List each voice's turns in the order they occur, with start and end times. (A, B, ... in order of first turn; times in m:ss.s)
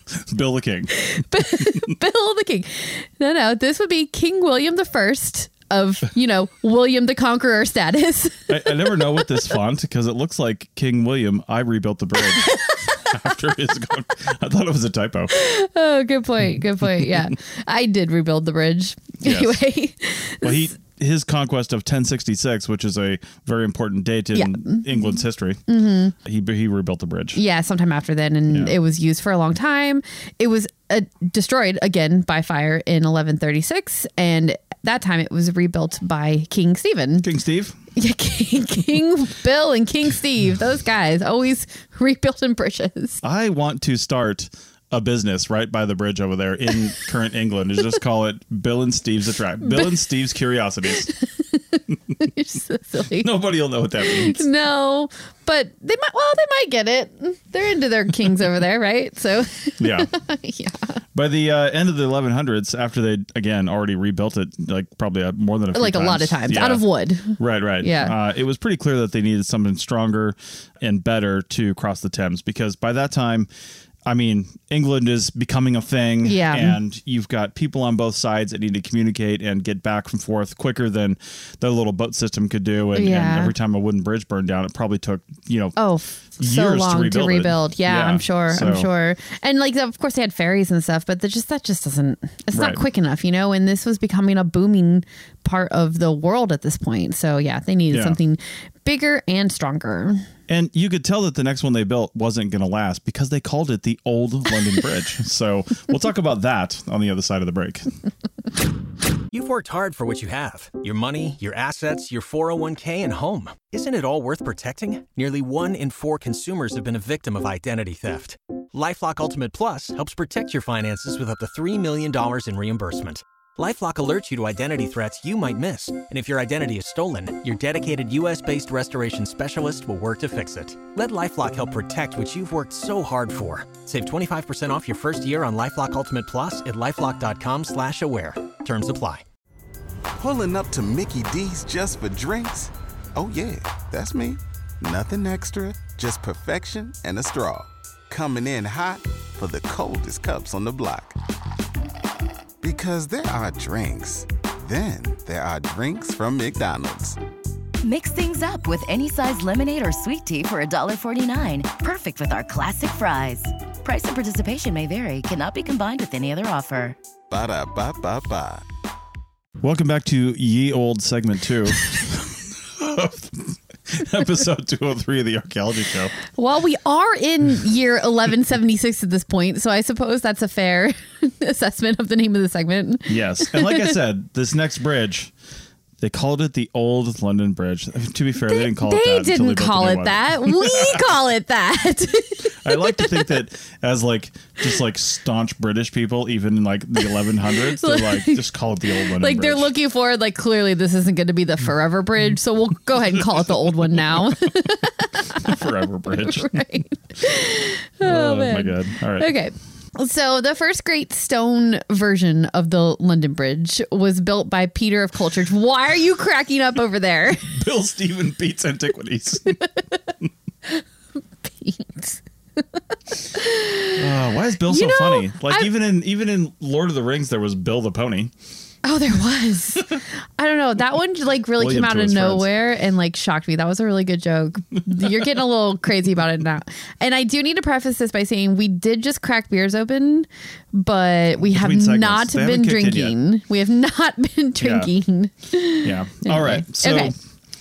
0:00.1-0:00.9 A
0:00.9-0:09.4 B
0:08.5-0:15.3 A
0:12.2-0:13.0 B
0:15.3-0:20.7 B
0:16.8-0:17.3 A
0:19.2-0:19.6 A
0:20.4-0:25.6 A
0:24.3-0:26.1 B
0:26.2-0:27.4 A
0:27.3-0:37.2 B
0:28.5-0:28.8 A
0:37.2-0:37.8 A
0:38.0-0:43.2 B
0:43.2-0:51.1 A
0:49.6-0:50.0 B
0:51.0-0:53.3 B
0:53.2-0:54.4 A
0:54.0-1:01.0 B
0:59.8-1:00.1 A
1:01.1-1:13.5 A
1:05.7-1:08.1 B
1:14.0-1:25.8 A
1:16.2-1:16.8 B
1:23.0-1:23.5 B
1:25.8-1:40.2 B
1:26.4-1:28.9 A
1:32.5-1:32.8 A
1:37.9-1:38.2 A
1:40.5-1:47.9 A
1:49.3-2:19.2 C
2:20.2-2:31.2 D
2:32.6-2:37.2 D
2:37.8-2:47.0 E
2:47.3-2:48.6 D
2:49.6-2:56.1 A
2:56.3-3:04.0 B
3:03.1-3:05.3 A
3:06.0-3:11.0 A
3:08.4-3:13.4 B
3:12.6-3:19.7 A
3:17.0-3:37.6 B
3:25.3-3:26.6 A
3:28.0-3:29.3 A
3:37.4-3:39.6 A
3:39.5-3:39.8 B
3:41.4-3:44.1 B
3:44.0-3:48.3 A
3:44.6-3:45.7 B
3:48.8-4:07.1 B
3:51.6-3:52.5 A
4:01.4-4:03.1 A
4:04.6-4:04.9 A
4:05.8-4:07.1 A